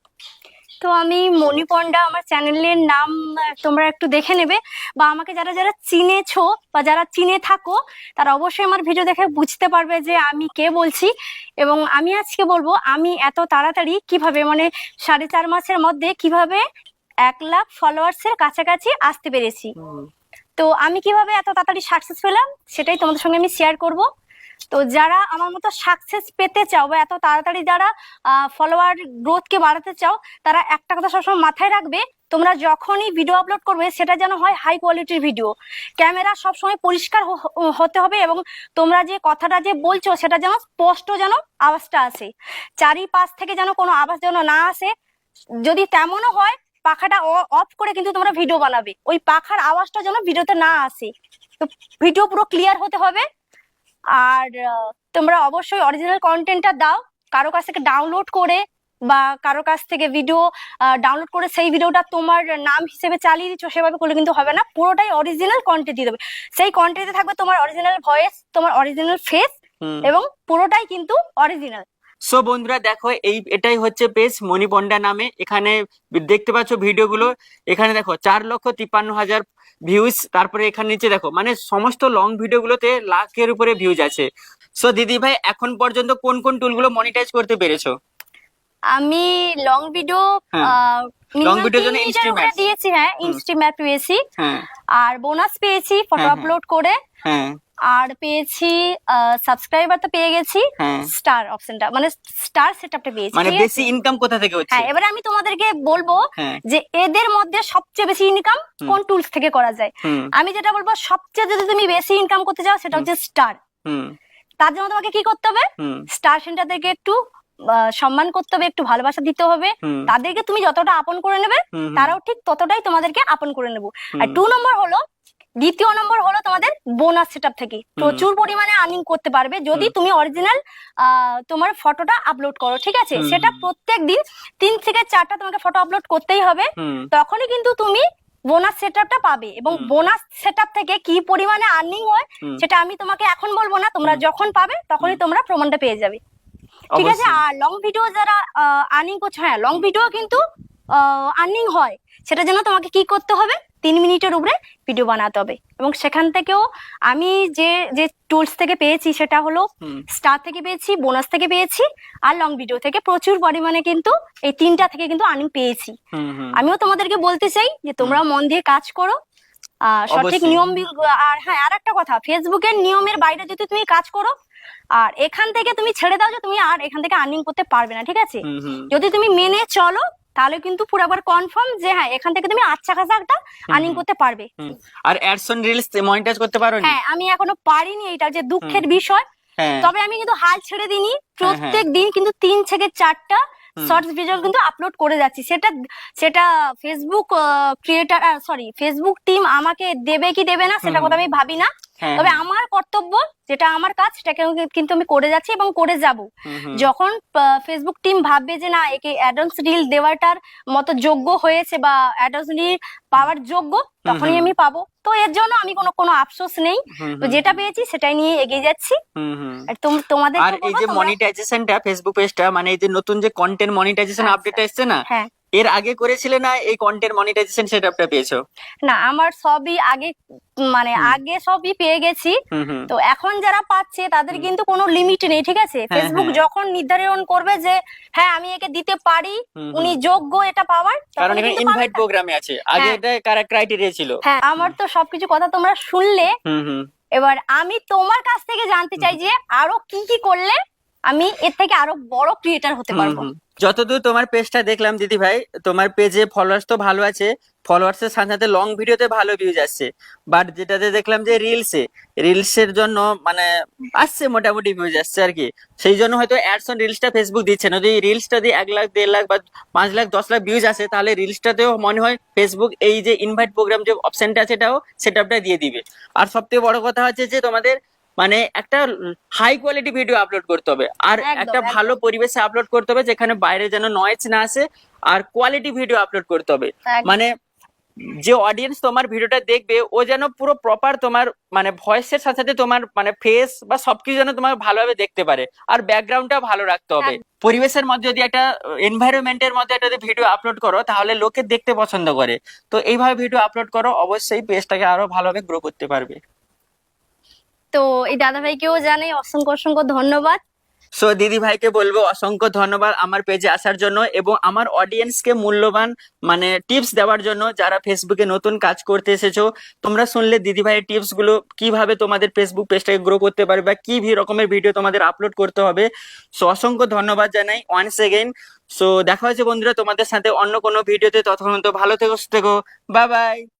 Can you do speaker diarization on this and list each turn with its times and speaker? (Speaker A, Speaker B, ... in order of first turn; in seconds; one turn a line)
Speaker A: 0.8-11.1
Speaker A: 11.6-16.6
Speaker A: 17.2-19.7
Speaker B: 19.8-20.1
Speaker A: 20.6-24.1
Speaker A: 24.7-44.9
Speaker A: 45.6-53.2
Speaker A: 54.2-69.5
Speaker B: 69.8-70.1
Speaker A: 70.0-71.8
Speaker B: 72.3-84.3
Speaker B: 84.8-87.9
Speaker A: 88.9-94.2
Speaker B: 91.4-92.6
Speaker B: 94.4-94.7
Speaker A: 95.0-97.0
Speaker B: 96.2-96.5
Speaker B: 97.2-97.5
Speaker A: 97.9-103.8
Speaker B: 100.8-101.1
Speaker B: 103.3-104.9
Speaker A: 104.7-113.6
Speaker B: 110.0-110.3
Speaker B: 113.8-114.1
Speaker A: 114.6-117.2
Speaker B: 115.8-116.1
Speaker A: 117.7-125.0
Speaker B: 119.8-120.1
Speaker B: 121.7-122.1
Speaker B: 124.1-124.4
Speaker A: 125.6-146.2
Speaker B: 128.0-128.2
Speaker B: 133.2-133.6
Speaker B: 136.8-137.1
Speaker B: 139.7-139.9
Speaker B: 146.9-147.4
Speaker A: 146.9-150.4
Speaker A: 150.9-165.9
Speaker B: 166.1-166.6
Speaker A: 166.6-169.2
Speaker A: 169.9-174.3
Speaker B: 170.1-170.6
Speaker A: 175.0-184.5
Speaker B: 178.4-178.9
Speaker B: 183.7-184.0
Speaker B: 184.6-186.9
Speaker A: 186.8-189.2
Speaker B: 189.6-189.9
Speaker A: 189.8-219.0
Speaker B: 191.4-191.8
Speaker B: 200.8-201.2
Speaker B: 202.0-202.4
Speaker B: 206.5-206.9
Speaker B: 214.1-214.5
Speaker B: 217.0-217.6
Speaker B: 219.2-219.7
Speaker A: 219.7-221.1
Speaker B: 220.4-225.0
Speaker A: 224.2-225.3
Speaker B: 225.6-228.4
Speaker A: 228.8-230.1
Speaker A: 230.7-232.4
Speaker B: 232.5-232.9
Speaker A: 232.9-242.0
Speaker B: 235.9-236.4
Speaker B: 239.6-240.0
Speaker B: 241.2-244.8
Speaker A: 244.2-246.3
Speaker B: 246.4-246.9
Speaker A: 247.1-253.3
Speaker B: 252.9-278.8
Speaker B: 279.4-287.3
Speaker A: 281.2-282.0
Speaker A: 286.9-287.1
Speaker B: 288.2-306.2
Speaker A: 307.7-310.4
Speaker B: 311.0-325.9
Speaker B: 326.4-333.4